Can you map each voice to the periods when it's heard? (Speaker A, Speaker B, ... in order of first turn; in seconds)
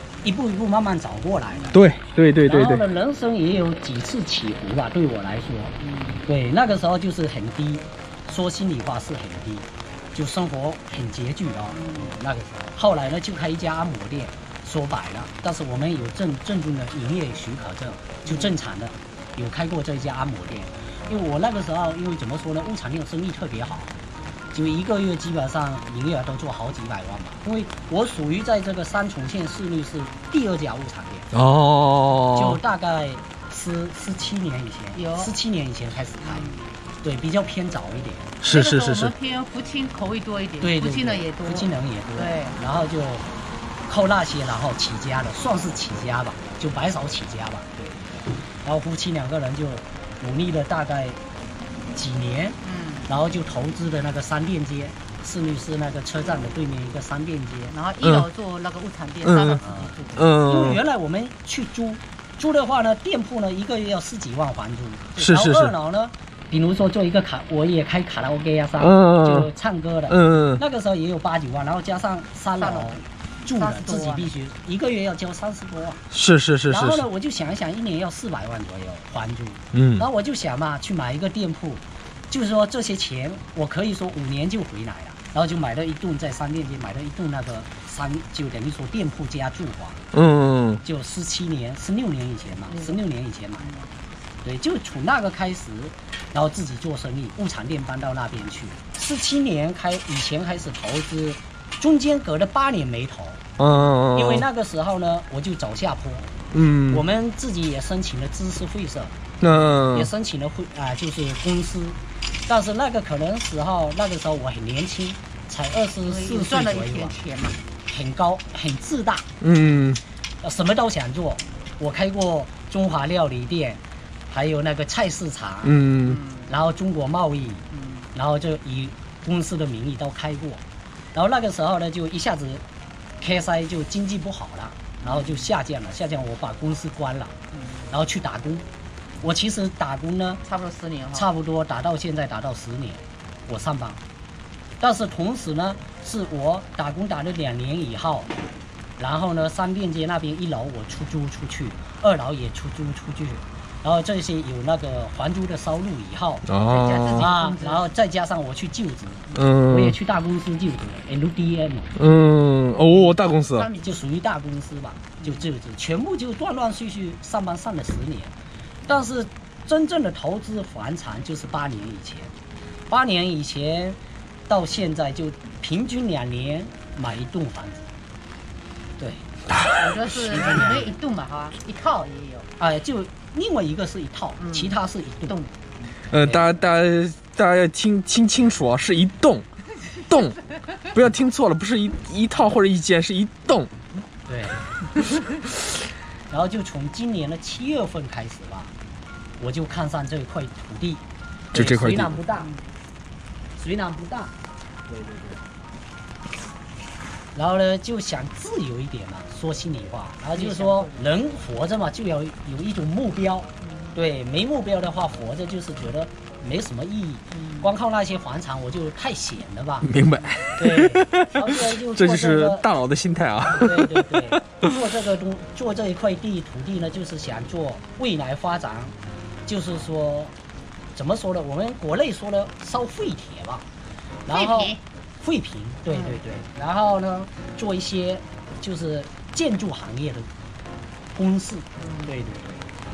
Speaker A: 0.2-1.8, 2.5-5.8, 6.3-23.9, 24.5-31.3, 32.4-36.5, 37.0-38.3, 40.6-43.2, 43.9-51.2, 51.9-52.6, 53.1-57.7, 60.5-76.0, 76.7-90.0, 90.8-93.8, 94.4-103.4, 104.2-106.3, 106.9-109.1, 109.9-117.1, 117.9-119.3, 120.4-125.8, 126.5-127.6, 128.1-130.6, 131.1-132.6, 133.2-137.3, 137.9-138.7, 139.2-140.4, 141.1-144.0, 144.8-148.3, 149.0-156.5, 157.2-161.9, 163.8-168.3, 168.9-172.3, 172.9-177.8, 179.0-179.2, 180.1-180.9, 182.6-185.3, 194.3-194.6, 196.3-198.7, 199.4-201.0, 201.5-202.5, 203.6-204.3, 207.3-220.0, 220.6-222.7, 223.5-228.9, 229.5-230.3, 230.9-233.7, 234.3-240.3, 241.2-242.7
Speaker B: 1.5-1.8, 5.8-6.2, 11.7-12.2, 18.3-18.5, 34.9-35.3, 36.2-36.7, 38.5-42.6, 52.6-53.1, 57.7-60.3, 72.6-74.3, 92.7-93.0, 116.0-117.6, 126.0-126.5, 127.7-128.1, 135.0-135.5, 137.5-137.9, 140.4-141.3, 156.7-157.9, 163.5-164.0, 165.2-165.5, 179.7-182.5, 184.4-184.8, 185.3-185.5, 202.4-202.6, 205.0-205.3, 210.3-211.1, 213.6-213.9, 217.3-217.7, 234.3-234.8, 235.9-236.2, 241.8-242.2
Speaker C: 1.7-2.8, 31.3-32.6, 38.4-39.1, 58.0-58.3, 59.2-59.6, 60.2-60.8, 65.2-65.7, 68.8-69.5, 70.1-70.6, 76.1-77.1, 79.7-80.0, 90.1-90.8, 103.6-104.5, 106.5-107.0, 109.4-110.1, 119.4-120.0, 125.6-126.2, 156.5-157.3, 159.3-160.0, 161.9-163.7, 186.1-189.5, 190.1-193.9, 201.5-202.2, 219.8-224.4